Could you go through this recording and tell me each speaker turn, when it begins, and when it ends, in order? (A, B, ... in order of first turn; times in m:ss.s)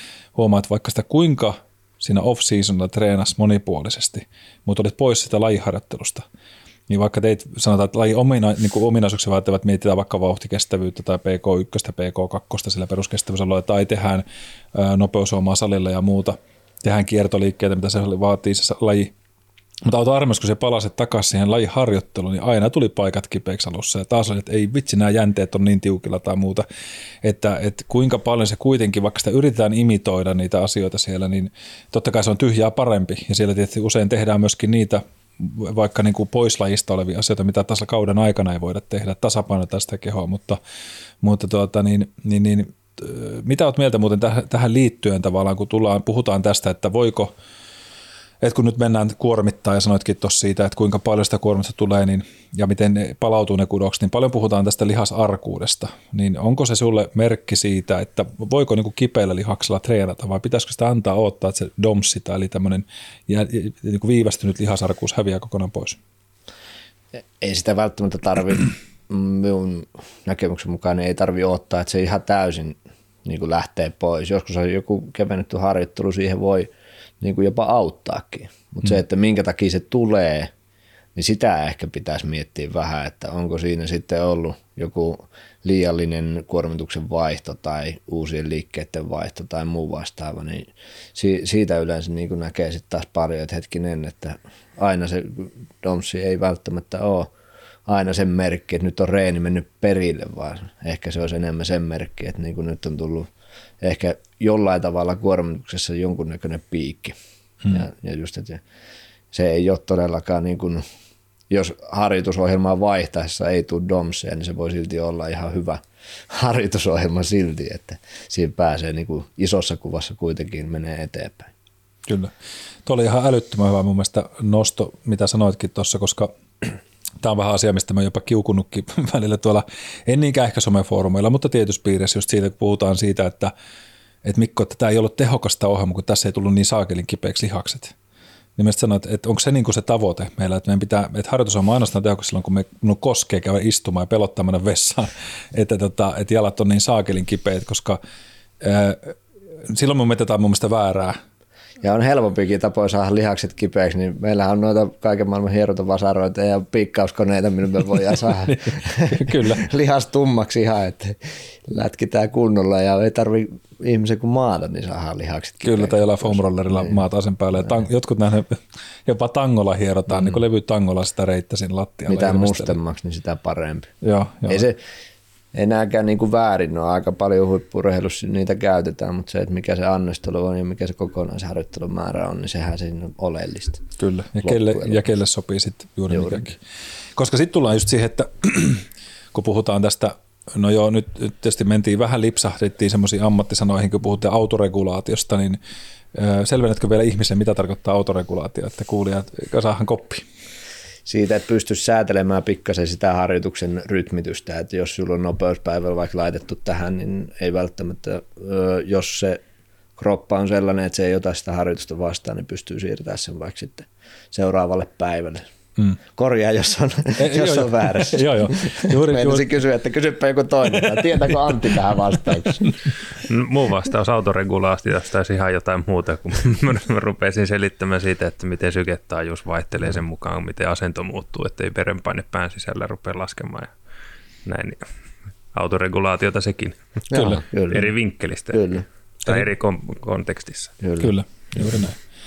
0:00.4-0:06.2 A
0:06.9-0:19.1 A
0:19.8-0:26.7 A
0:27.2-0:40.6 A
0:41.2-0:47.3 A
0:48.4-1:06.0 A
1:07.4-1:16.7 B
1:17.2-1:20.5 B
1:21.2-1:37.3 B
1:37.9-1:43.3 B
1:43.8-1:48.6 B
1:49.3-1:50.8 B
1:51.5-2:01.5 B
2:02.1-2:02.3 A
2:02.9-2:13.5 A
2:14.2-2:18.0 A
2:18.6-2:28.0 A
2:28.6-2:31.2 A
2:31.8-2:47.0 B
2:38.5-2:39.7 A
2:45.6-2:52.8 A
2:52.1-2:53.9 B
2:54.0-2:54.6 A
2:54.5-2:54.8 B
2:55.5-3:03.8 B
3:04.0-3:06.6 A
3:04.4-3:05.0 B
3:06.1-3:06.4 B
3:07.2-3:15.6 A
3:16.1-3:20.2 A
3:21.1-3:29.4 B
3:30.0-3:35.4 B
3:36.2-3:42.7 B
3:37.2-3:39.5 A
3:43.2-3:53.8 C
3:54.4-3:54.9 C
3:55.5-4:00.7 C
3:57.1-3:57.9 B
3:58.5-3:58.8 B
4:00.8-4:01.1 B
4:01.0-4:02.0 A